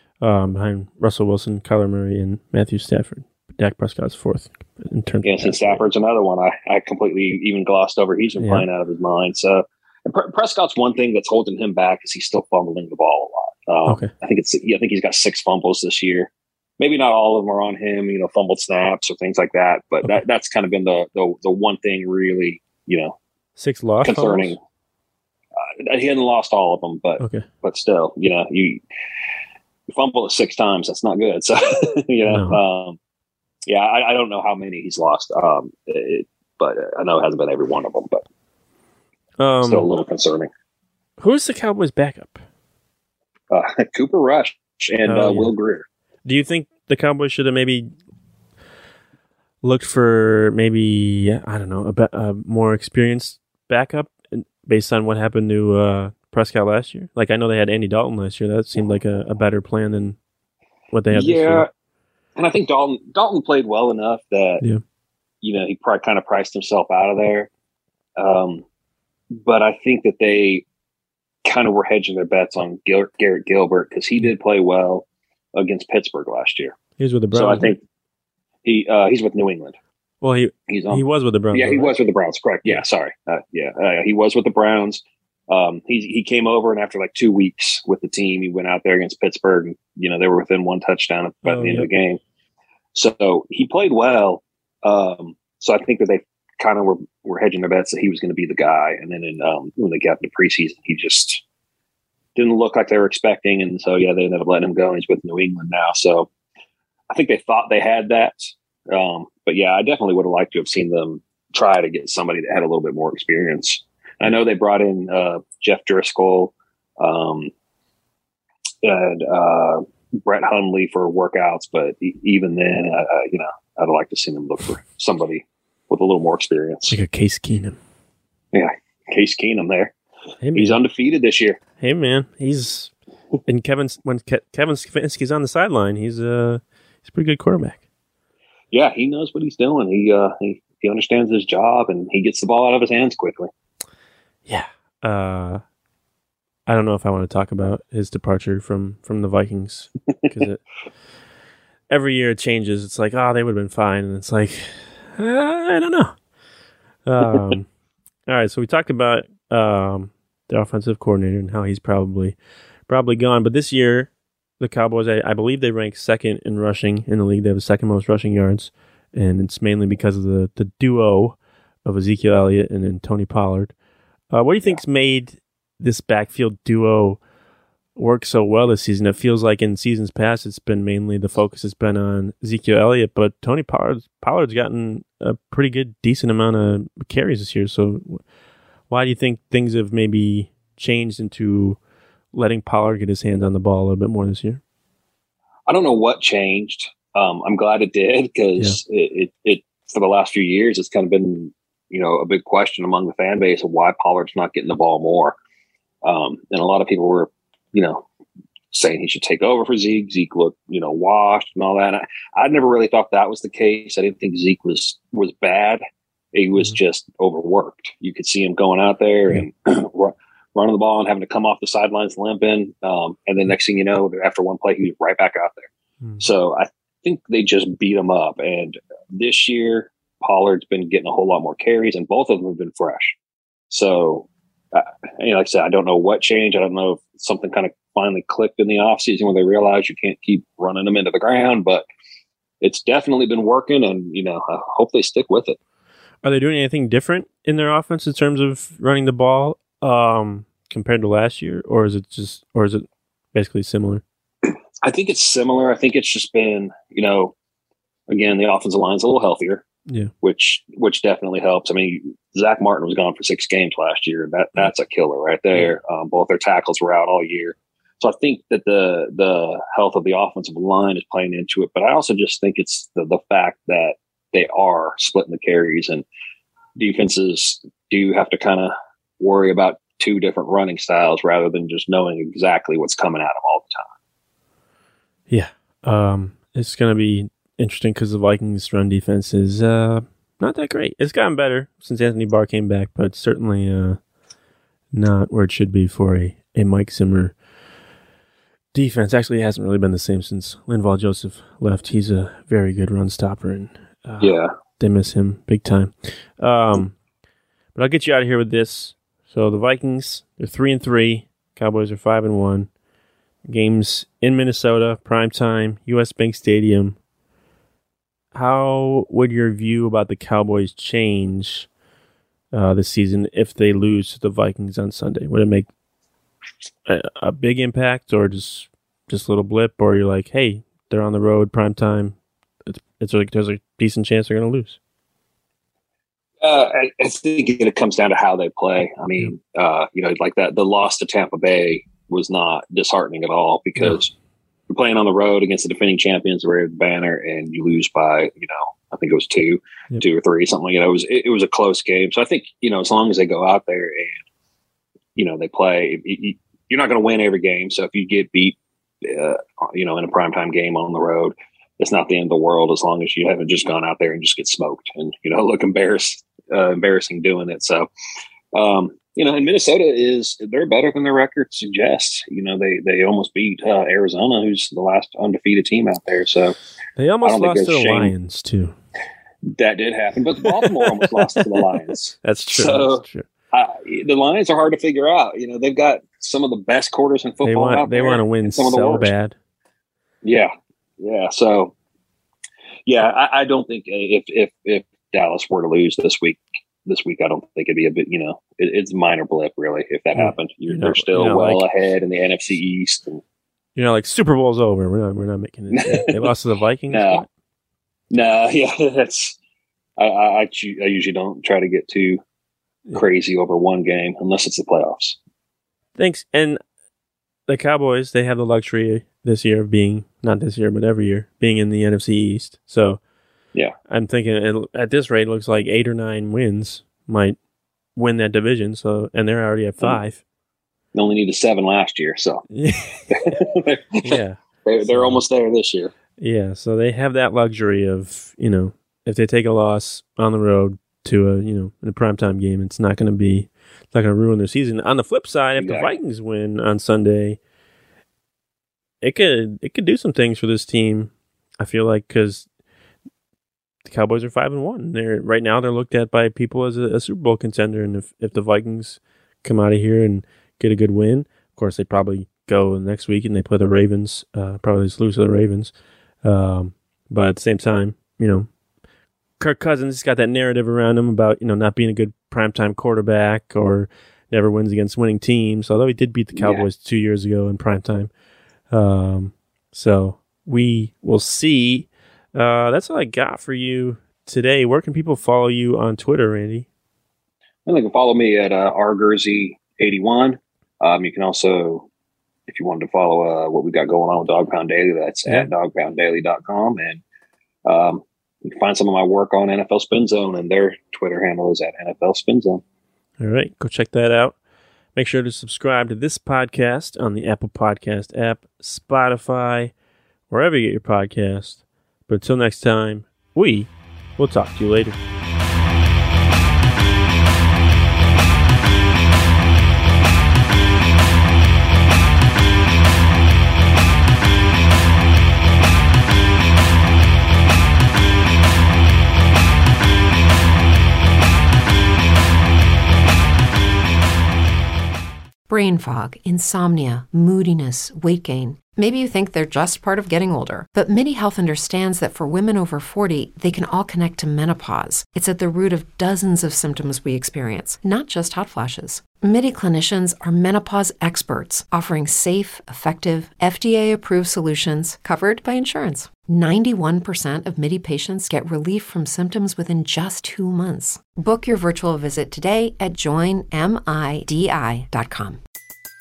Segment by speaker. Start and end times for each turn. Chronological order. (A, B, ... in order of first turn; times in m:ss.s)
0:00.2-0:05.8 A
0:05.2-0:23.2 B
0:08.4-0:08.7 A
0:23.6-0:24.5 A
0:24.0-0:24.6 B
0:25.8-0:28.8 B
0:27.2-0:27.5 A
0:29.9-0:33.0 B
0:32.3-0:32.6 A
0:33.7-0:38.2 B
0:39.4-0:39.9 A
0:39.6-0:40.5 B
0:41.2-0:42.4 A
0:43.5-0:45.8 B
0:45.1-0:45.5 A
0:46.2-0:47.9 A
0:49.6-1:00.2 A
1:00.9-1:01.6 A
1:01.1-1:01.7 B
1:02.4-1:04.6 B
1:05.4-1:07.5 B
1:08.2-1:08.6 B
1:09.3-1:10.6 B
1:11.4-1:16.8 B
1:17.0-1:17.8 A
1:17.3-1:17.8 B
1:18.6-1:19.8 B
1:20.2-1:22.0 A
1:20.7-1:32.2 B
1:31.4-1:31.9 A
1:32.9-1:41.4 B
1:42.4-1:46.3 B
1:47.1-1:57.5 B
1:58.8-2:07.0 B
2:06.9-2:07.8 A
2:08.5-2:09.9 B
2:10.4-2:10.8 A
2:10.6-2:11.6 B
2:11.8-2:12.9 A
2:13.5-2:17.8 A
2:18.7-2:23.5 B
2:24.5-2:25.6 A
2:26.7-2:30.6 A
2:31.9-2:36.2 A
2:37.0-2:37.7 A
2:38.3-2:42.4 A
2:42.9-2:53.7 A
2:54.3-2:57.2 A
2:58.0-3:08.2 A
3:08.9-3:11.8 A
3:12.3-3:14.6 A
3:15.7-3:25.4 B
3:26.0-3:28.0 B
3:28.7-3:35.8 B
3:36.3-3:45.7 B
3:46.2-3:53.2 B
3:53.7-4:01.8 B
4:02.6-4:05.6 B
4:06.2-4:14.0 A
4:14.8-4:17.3 B
4:18.1-4:19.6 B
4:19.9-4:20.1 A
4:20.2-4:36.0 B
4:36.8-4:43.9 B
4:45.3-4:54.0 A
4:54.9-4:57.4 A
4:58.7-5:07.0 A
5:04.2-5:04.5 B
5:07.8-5:12.7 A
5:13.4-5:17.0 A
5:18.3-5:21.7 A
5:22.5-5:25.7 A
5:26.9-5:34.8 A
5:36.4-5:44.1 B
5:44.7-5:54.2 B
5:55.2-6:07.9 B
6:08.5-6:16.6 B
6:17.0-6:18.8 A
6:17.2-6:18.1 B
6:19.5-6:29.1 B
6:20.5-6:21.4 A
6:22.2-6:23.3 A
6:27.4-6:29.4 A
6:30.2-6:31.7 B
6:32.9-6:43.2 B
6:40.2-6:41.6 A
6:43.8-6:47.3 A
6:45.7-6:46.1 B
6:46.9-6:47.2 B
6:48.1-6:49.4 B
6:50.0-6:52.2 B
6:52.9-6:55.2 B
6:56.0-6:56.6 A
6:57.5-7:03.0 A
7:03.9-7:07.4 A
7:08.0-7:10.2 A
7:11.0-7:12.4 B
7:12.5-7:13.3 A
7:13.1-7:15.9 B
7:14.0-7:15.2 A
7:16.2-7:27.4 A
7:25.6-7:26.0 B
7:29.0-7:32.5 A
7:33.8-7:45.7 A
7:46.2-7:48.5 A
7:49.4-7:58.1 A
7:56.3-7:56.7 B
7:58.7-8:06.7 A
8:07.7-8:11.9 B
8:12.5-8:17.0 B
8:17.7-8:22.6 B
8:23.2-8:24.4 A
8:25.0-8:29.7 A
8:30.3-8:35.0 A
8:55.5-9:25.4 C